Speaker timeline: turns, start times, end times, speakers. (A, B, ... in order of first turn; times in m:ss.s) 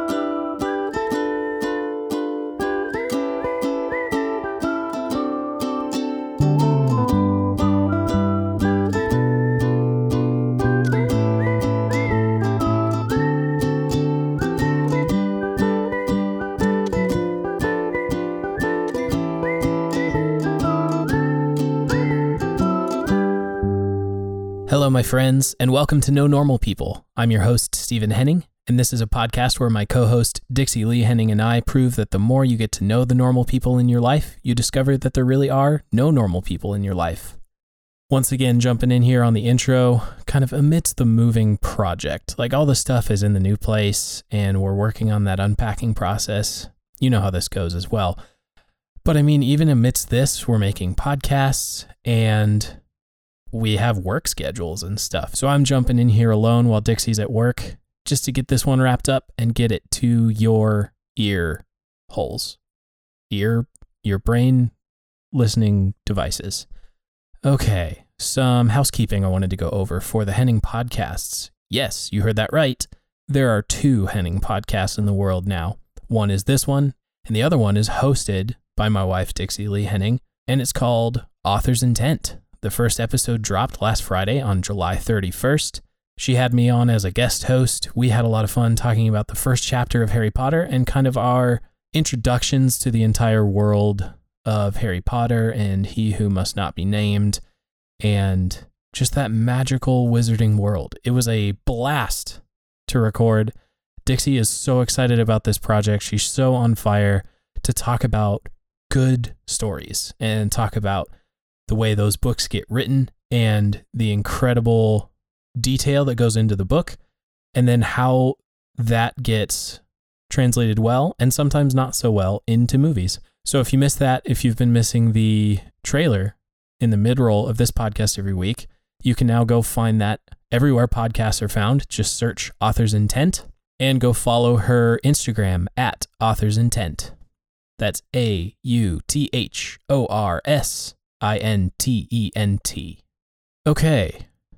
0:24.7-0:37.4 A
0:38.1-0:48.2 A
0:49.0-0:52.8 A
0:53.5-1:02.6 A
1:03.3-1:04.7 A
1:05.3-1:06.7 A
1:07.4-1:37.4 A
1:38.0-1:43.5 A
1:44.0-1:51.1 A
1:51.7-1:57.0 A
1:57.6-2:17.1 A
2:17.8-2:23.0 A
2:23.7-2:24.3 A